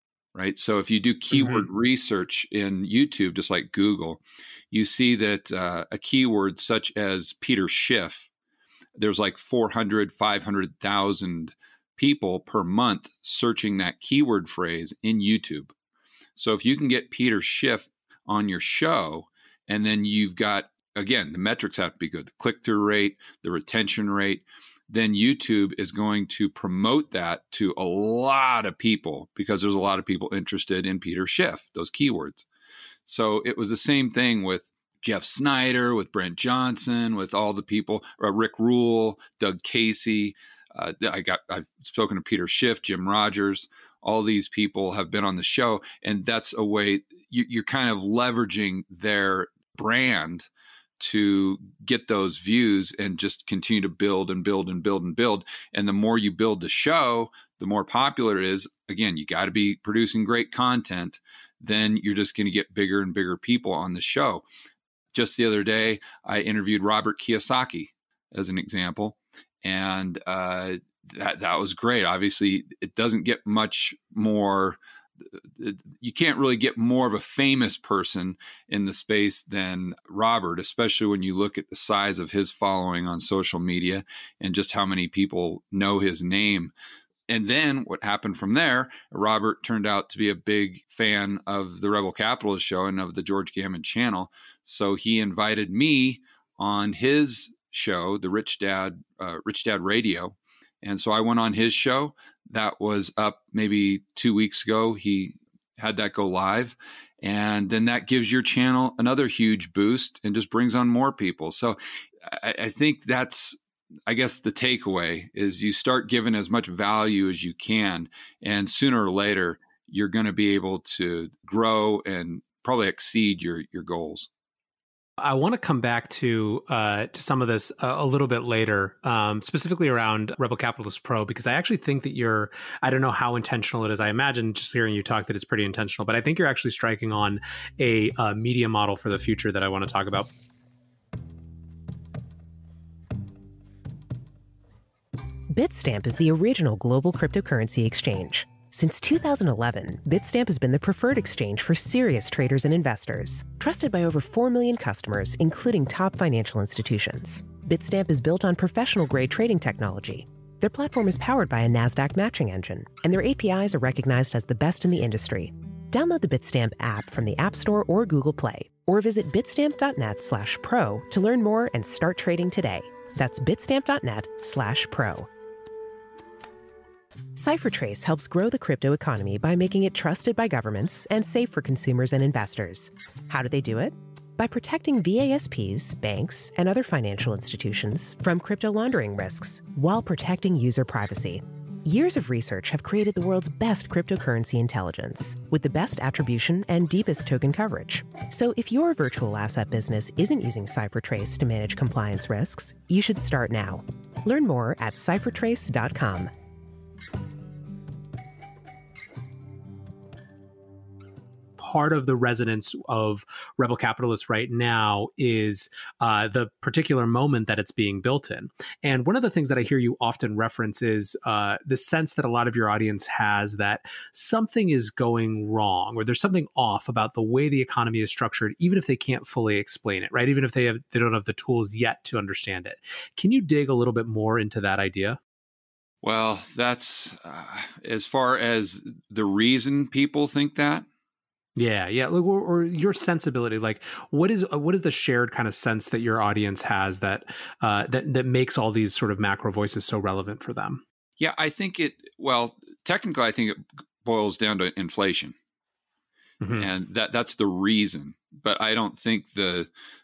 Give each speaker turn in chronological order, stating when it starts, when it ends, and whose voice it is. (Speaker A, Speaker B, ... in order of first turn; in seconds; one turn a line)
Speaker A: 0.3-4.2
Speaker B: 1.3-1.7
Speaker A: 4.7-8.3
Speaker A: 9.0-15.7
Speaker A: 16.4-32.5
Speaker A: 33.1-64.5
Speaker A: 65.1-86.7
Speaker A: 87.3-124.3
Speaker B: 125.2-140.3
Speaker C: 145.5-175.3
Speaker C: 177.3-206.3
Speaker B: 211.6-235.2
Speaker A: 236.0-240.9
Speaker B: 241.6-250.8
Speaker A: 251.2-255.3
Speaker B: 256.4-256.7
Speaker A: 256.6-259.7